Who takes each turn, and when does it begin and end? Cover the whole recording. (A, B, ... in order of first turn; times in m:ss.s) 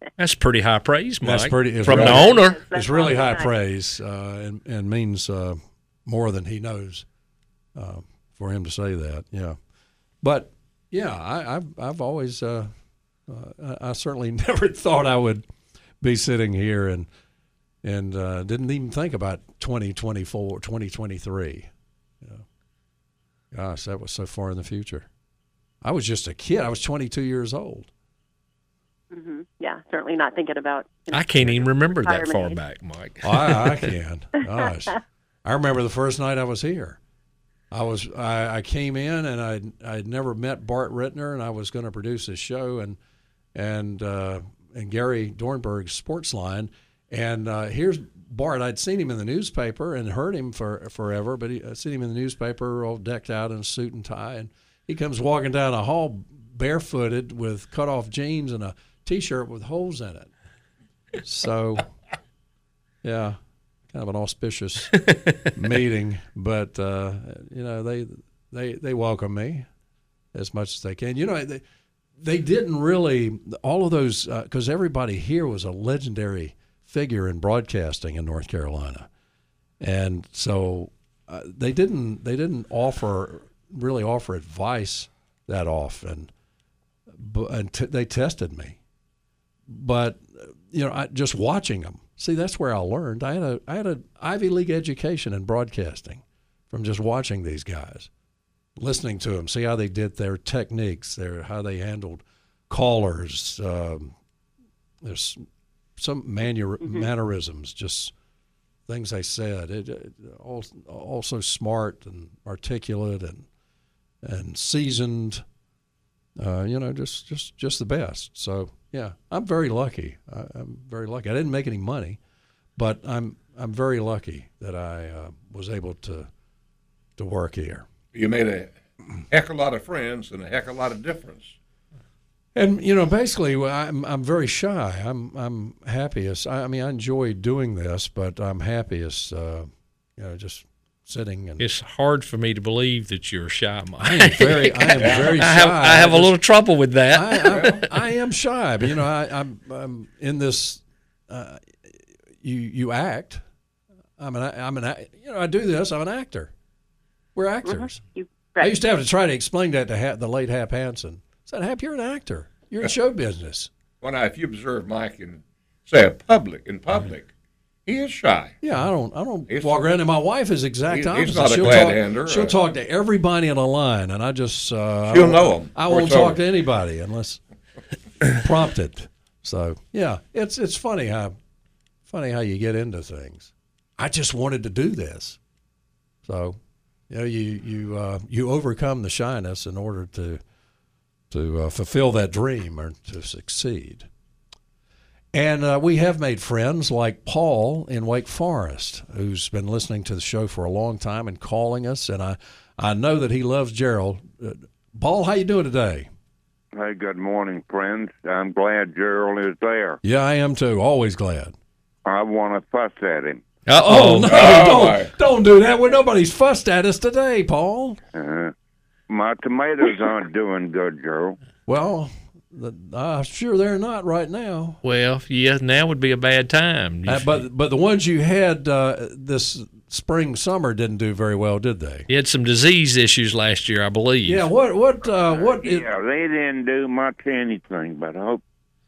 0:00.2-0:02.6 A
0:01.2-0:07.0 B
0:01.9-0:02.2 C
0:02.0-0:03.5 D
0:07.7-0:09.6 B
0:10.2-0:12.7 B
0:13.3-0:15.4 B
0:16.0-0:17.1 B
0:17.8-0:21.7 B
0:23.5-0:25.1 B
0:25.8-0:27.9 B
0:29.1-0:32.6 D
0:31.1-0:33.9 A
0:33.2-0:37.0 B
0:37.7-0:43.0 B
0:43.5-1:00.3 B
1:01.2-1:01.9 B
1:03.0-1:03.4 B
1:03.9-1:09.7 B
1:10.3-1:11.6 B
1:12.2-1:19.1 B
1:19.8-1:26.3 B
1:27.1-1:28.8 B
1:29.7-1:38.1 B
1:38.8-1:44.1 B
1:45.0-1:45.4 B
1:46.0-1:48.1 B
1:48.9-1:53.5 B
1:54.2-1:55.4 B
1:56.4-2:02.2 B
2:02.8-2:06.3 B
2:07.2-2:07.8 B
2:08.1-2:08.7 C
2:09.3-2:11.5 C
2:12.5-2:21.6 B
2:21.6-2:27.8 A
2:24.0-2:26.4 B
2:25.0-2:25.4 C
2:27.1-2:33.4 B
2:27.5-2:27.8 C
2:34.2-2:36.5 B
2:37.3-2:38.0 B
2:37.7-2:38.8 D
2:38.6-2:43.7 B
2:44.0-2:47.3 C
2:47.8-2:48.6 C
2:48.6-2:57.4 B
2:49.5-2:49.9 C
2:50.9-2:52.5 C
2:55.1-2:56.4 C
2:58.2-3:01.4 B
3:02.1-3:05.4 B
3:06.2-3:06.6 B
3:07.1-3:10.4 B
3:11.3-3:14.1 B
3:15.3-3:26.1 B
3:26.8-3:30.0 E
3:30.0-3:31.5 B
3:32.0-3:33.4 E
3:33.6-3:34.7 A
3:33.8-3:38.0 B
3:34.2-3:35.1 C
3:38.1-3:38.5 E
3:39.1-3:41.4 E
3:41.7-3:44.8 B
3:44.8-3:47.4 A
3:47.0-3:52.1 B
3:52.1-3:54.4 A
3:54.2-3:55.8 B
3:55.3-3:58.4 E